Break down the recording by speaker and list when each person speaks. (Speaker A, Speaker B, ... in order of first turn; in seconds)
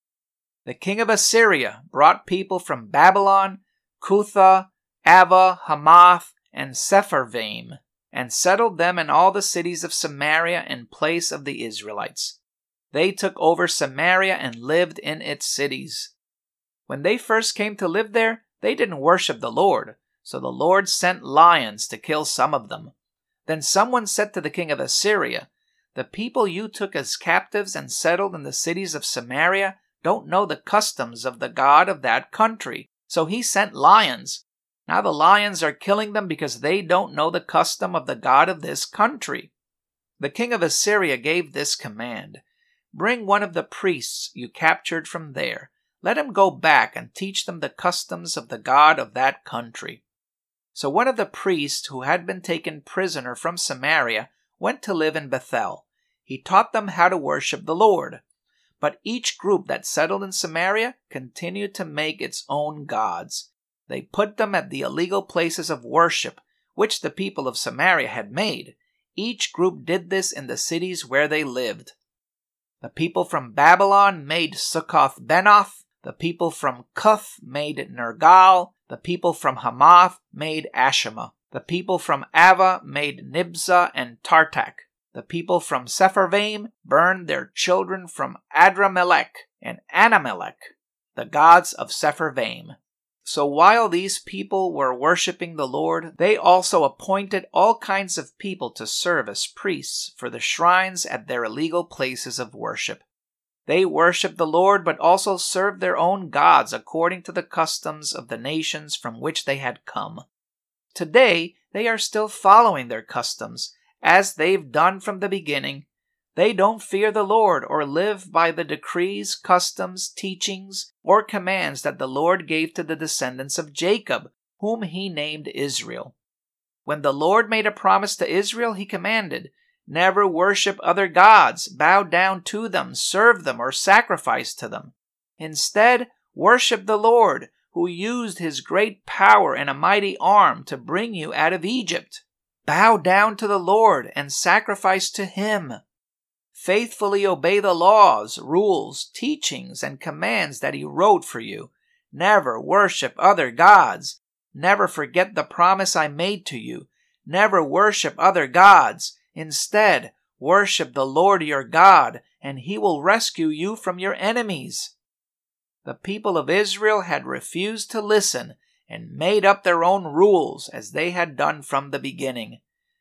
Speaker A: 0.7-12.4, 12.9-16.1, 16.9-22.9, 23.5-39.5, 40.2-42.4, 42.9-50.0, 50.7-58.2, 58.8-72.0, 72.8-103.0, 103.7-110.2, 110.9-126.2, 126.9-145.8, 146.5-164.9, 165.8-172.6